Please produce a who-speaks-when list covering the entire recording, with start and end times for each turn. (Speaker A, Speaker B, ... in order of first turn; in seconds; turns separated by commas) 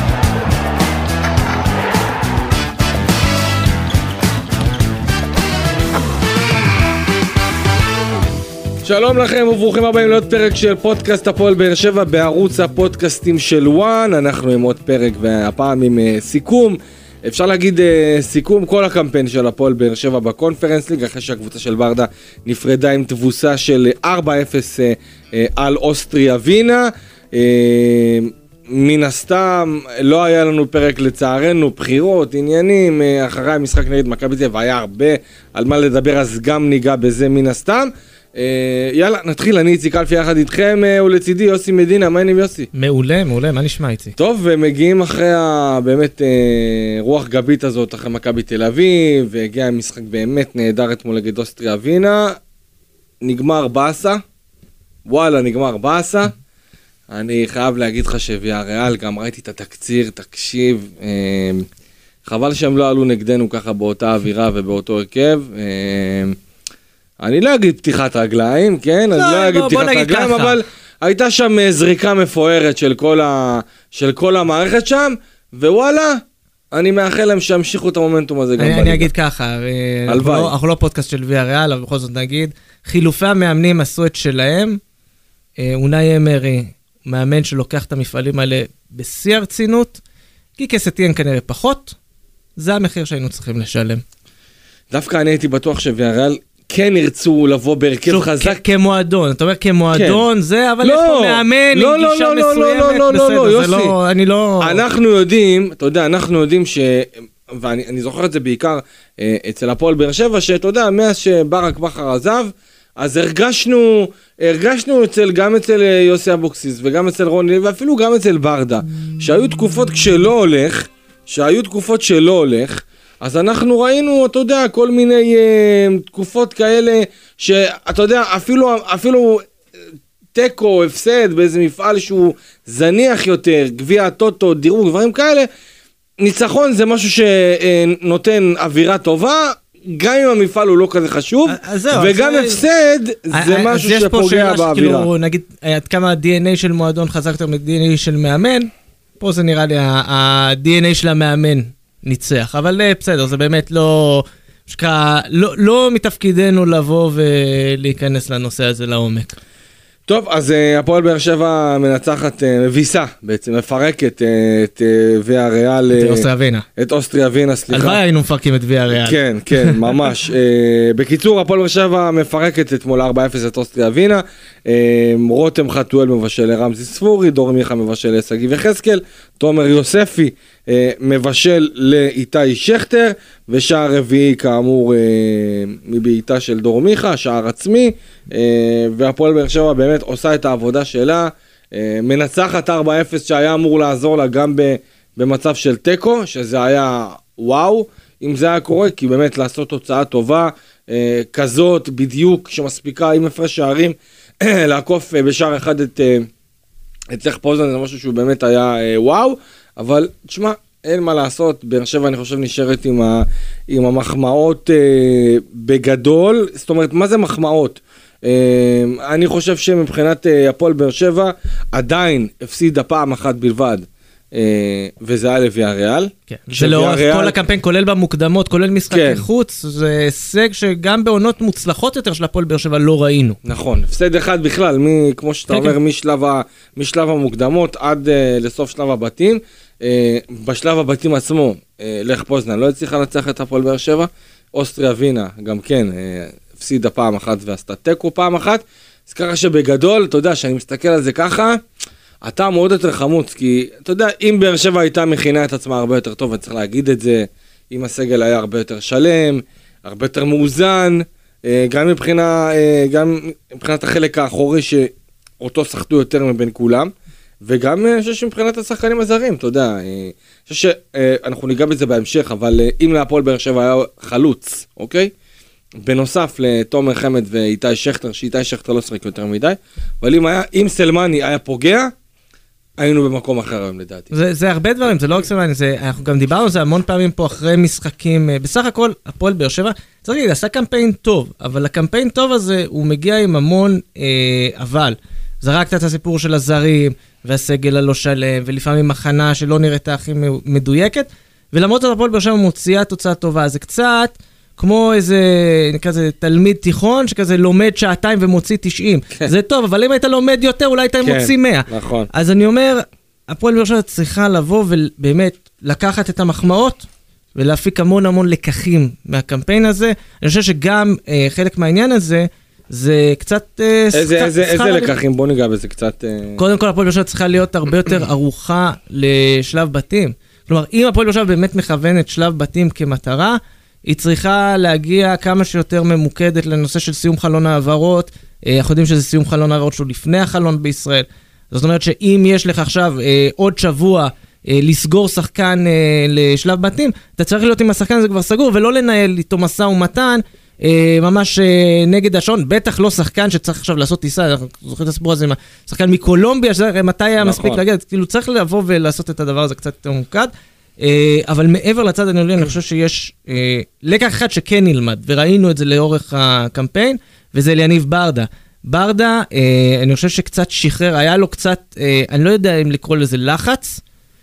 Speaker A: 8.8-42.7, Speaker B: 42.7-44.1, Speaker A: 44.2-52.4, Speaker A: 53.2-54.2, Speaker A: 55.1-56.3, Speaker A: 57.1-61.6, Speaker A: 62.2-66.3, Speaker A: 67.2-76.2, Speaker B: 69.1-70.6, Speaker A: 76.7-79.1, Speaker B: 78.6-84.8, Speaker A: 80.1-80.5, Speaker B: 85.6-90.0, Speaker B: 90.6-92.0, Speaker B: 92.6-94.0, Speaker A: 94.9-98.6, Speaker B: 98.1-104.8, Speaker A: 99.9-100.2, Speaker A: 100.8-103.9, Speaker A: 104.6-129.4, Speaker A: 130.3-135.5, Speaker A: 136.2-145.1, Speaker B: 141.5-142.6, Speaker B: 143.3-148.7, Speaker B: 149.2-159.3, Speaker A: 160.1-168.0, Speaker B: 165.9-166.6, Speaker B: 167.7-169.8, Speaker A: 169.0-206.3, Speaker A: 207.1-227.3, Speaker B: 226.3-233.4, Speaker A: 228.9-229.2, Speaker A: 233.4-251.6, Speaker B: 235.5-235.8, Speaker A: 252.2-266.9, Speaker A: 267.4-275.1, Speaker A: 275.8-281.9, Speaker A: 282.8-284.1, Speaker B: 284.1-316.8, Speaker A: 311.0-312.1, Speaker B: 317.3-324.9, Speaker A: 323.9-326.4, Speaker B: 326.4-373.8, Speaker A: 357.2-357.6